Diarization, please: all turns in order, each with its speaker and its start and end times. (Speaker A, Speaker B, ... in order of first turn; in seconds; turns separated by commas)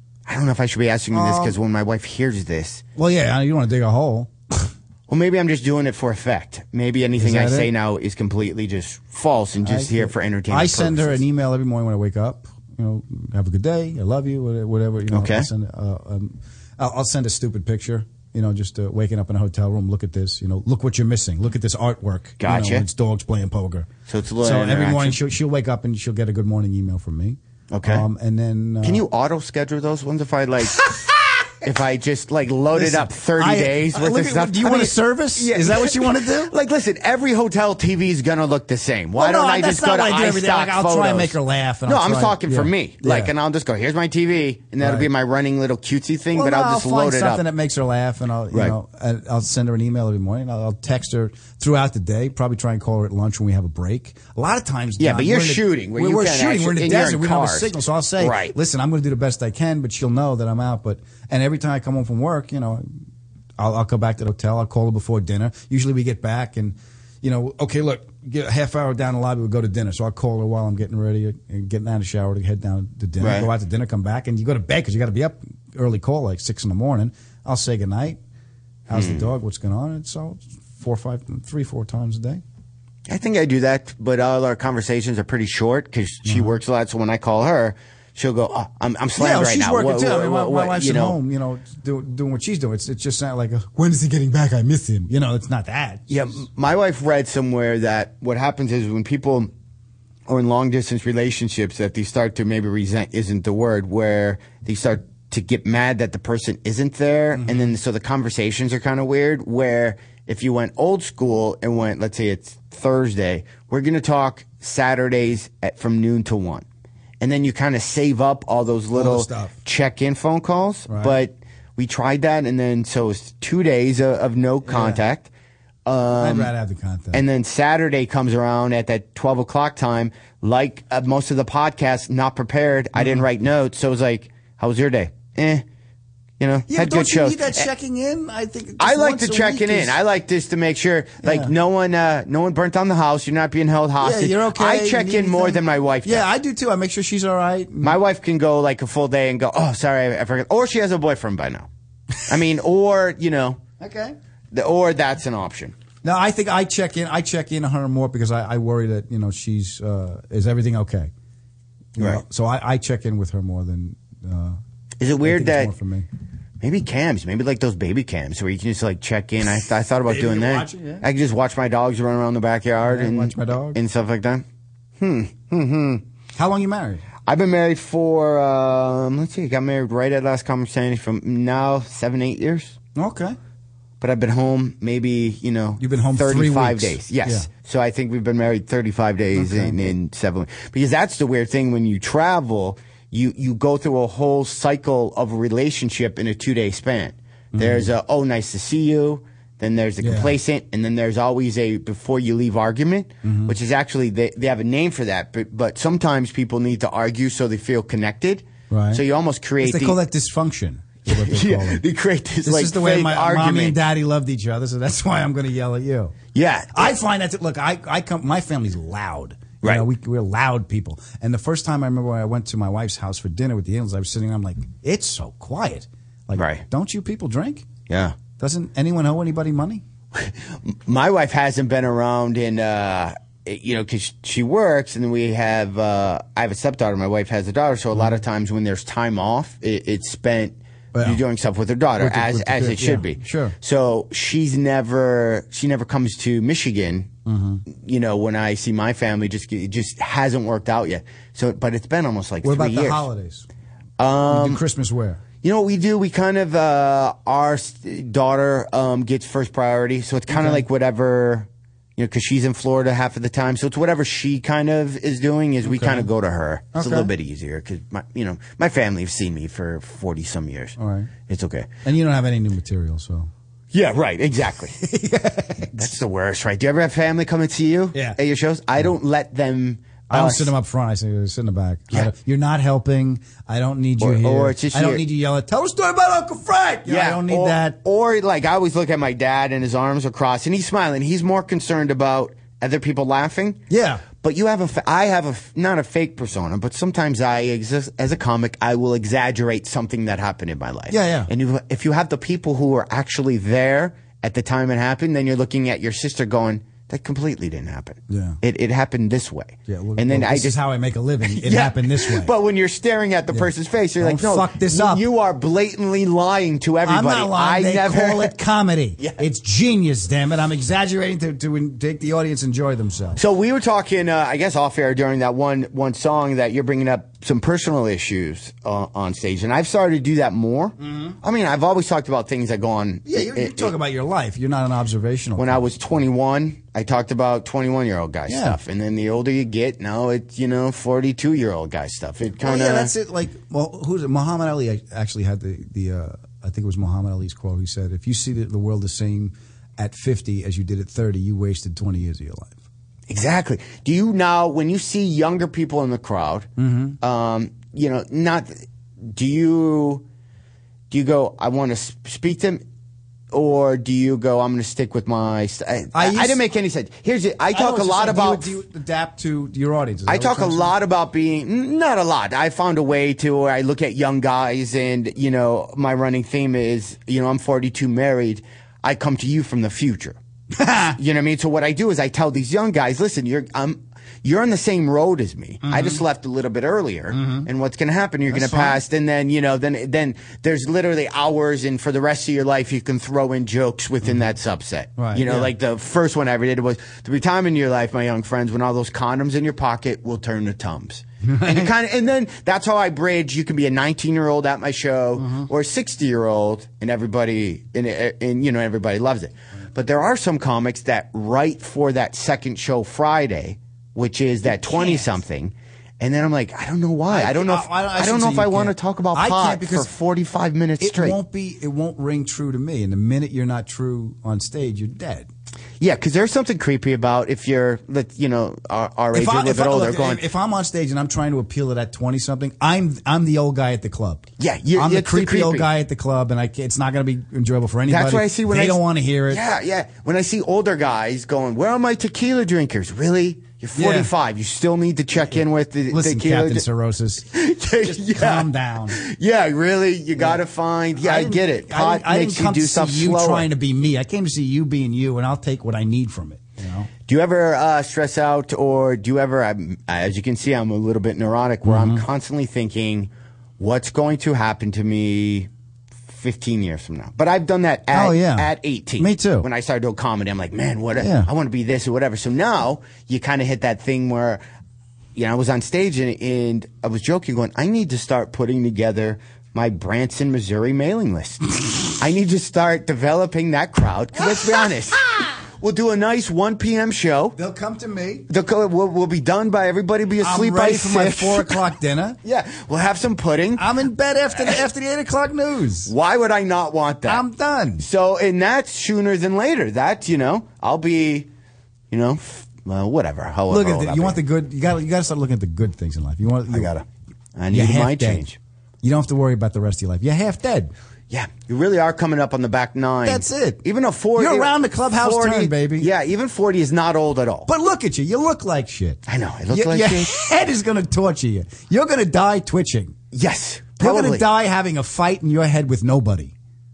Speaker A: 0.2-2.8, Speaker B: 1.1-1.6, Speaker B: 3.0-4.7, Speaker A: 5.1-11.2, Speaker B: 7.2-7.7, Speaker B: 9.6-23.9, Speaker A: 15.1-15.5, Speaker A: 22.4-22.9, Speaker A: 24.1-25.2, Speaker B: 24.4-29.0, Speaker A: 27.7-28.1, Speaker A: 28.8-30.9, Speaker A: 31.6-47.4, Speaker B: 32.7-36.5, Speaker B: 39.1-43.3, Speaker B: 44.8-45.1, Speaker B: 46.3-62.9, Speaker A: 55.0-58.5, Speaker B: 63.6-78.2, Speaker A: 73.2-73.5, Speaker B: 78.9-82.4, Speaker A: 78.9-79.3, Speaker A: 83.1-91.2, Speaker B: 86.2-86.5, Speaker B: 89.2-96.1, Speaker A: 96.1-99.5, Speaker A: 100.3-116.6, Speaker B: 107.3-107.7, Speaker A: 117.2-125.3, Speaker B: 118.9-119.5, Speaker B: 120.9-121.2, Speaker B: 124.6-125.0, Speaker A: 125.8-126.5, Speaker B: 126.1-127.2, Speaker A: 127.1-135.6, Speaker B: 133.0-133.2, Speaker A: 136.4-137.7, Speaker B: 136.7-140.0, Speaker A: 138.8-146.3, Speaker B: 141.2-141.5, Speaker B: 144.0-148.0, Speaker A: 147.8-151.7, Speaker A: 152.2-153.6, Speaker B: 153.8-154.2, Speaker A: 154.5-155.8, Speaker B: 156.0-161.1, Speaker B: 161.9-164.6, Speaker A: 162.0-162.2, Speaker A: 165.0-165.7, Speaker B: 165.2-166.1, Speaker A: 166.6-174.4, Speaker B: 170.1-171.0, Speaker B: 172.8-173.8, Speaker A: 175.0-176.0, Speaker B: 176.3-177.0, Speaker A: 177.2-182.8, Speaker B: 182.9-183.4, Speaker A: 184.0-210.0, Speaker B: 185.8-187.5, Speaker B: 189.3-189.9, Speaker B: 197.5-197.9, Speaker B: 200.0-200.4, Speaker B: 203.2-203.5, Speaker B: 208.7-209.0, Speaker B: 209.6-211.8, Speaker A: 211.1-213.8, Speaker B: 212.4-216.2, Speaker A: 216.3-216.9, Speaker B: 216.7-227.7, Speaker A: 219.6-219.9, Speaker A: 226.3-226.6, Speaker A: 227.9-228.2, Speaker B: 228.4-229.8, Speaker A: 230.1-247.1, Speaker B: 240.9-241.2, Speaker B: 242.0-243.5, Speaker B: 247.2-247.6, Speaker A: 247.7-253.1, Speaker B: 252.4-253.4, Speaker A: 254.0-254.6, Speaker B: 254.3-255.2, Speaker A: 255.4-271.7, Speaker B: 260.3-260.6, Speaker B: 265.6-266.1, Speaker B: 266.7-267.1, Speaker B: 270.8-271.1, Speaker B: 271.8-273.3, Speaker A: 273.7-274.8, Speaker B: 274.8-275.9, Speaker A: 275.7-280.5, Speaker B: 280.1-287.8, Speaker A: 284.0-285.0, Speaker A: 286.9-293.6, Speaker B: 293.7-294.0, Speaker A: 294.1-310.6, Speaker B: 300.9-301.3, Speaker B: 308.1-308.4, Speaker B: 309.7-312.3, Speaker A: 311.2-318.4, Speaker B: 313.3-315.1, Speaker B: 316.9-323.2, Speaker A: 323.1-333.7, Speaker B: 330.8-331.1, Speaker B: 333.1-335.6, Speaker A: 335.4-342.9, Speaker B: 338.3-338.6, Speaker B: 342.4-352.6, Speaker A: 353.1-356.5, Speaker B: 356.6-357.0, Speaker A: 357.0-360.0, Speaker A: 360.9-362.6, Speaker A: 363.3-368.6, Speaker B: 365.9-366.4, Speaker B: 367.5-370.7, Speaker A: 370.1-380.2, Speaker B: 380.5-381.0, Speaker A: 380.9-421.2, Speaker B: 385.6-386.0, Speaker B: 387.1-387.5, Speaker B: 388.3-388.8, Speaker B: 395.0-395.5, Speaker B: 401.2-401.7, Speaker B: 405.2-405.5, Speaker B: 414.5-415.1, Speaker B: 417.1-419.9, Speaker B: 420.8-425.3, Speaker A: 425.8-430.2, Speaker B: 429.1-439.4, Speaker A: 434.4-435.7, Speaker A: 437.9-446.6, Speaker B: 443.7-444.1, Speaker B: 445.9-449.0, Speaker A: 447.3-453.5, Speaker B: 451.0-456.9, Speaker A: 457.1-465.5, Speaker B: 461.6-462.0, Speaker A: 466.1-474.4, Speaker B: 467.9-469.5, Speaker B: 471.0-471.3, Speaker A: 475.1-487.4, Speaker B: 487.4-488.3, Speaker A: 488.3-491.6, Speaker B: 490.2-492.2, Speaker A: 492.2-493.7, Speaker B: 493.6-495.9, Speaker A: 495.9-497.2, Speaker B: 497.1-497.8, Speaker A: 497.8-501.3, Speaker A: 501.9-504.2, Speaker B: 503.5-506.8, Speaker A: 507.4-508.4, Speaker B: 507.5-508.2, Speaker B: 508.8-510.7, Speaker A: 511.1-517.5, Speaker B: 513.0-513.6, Speaker B: 514.1-515.9, Speaker B: 517.5-523.0, Speaker A: 519.0-520.3, Speaker A: 523.1-524.3, Speaker B: 523.8-526.3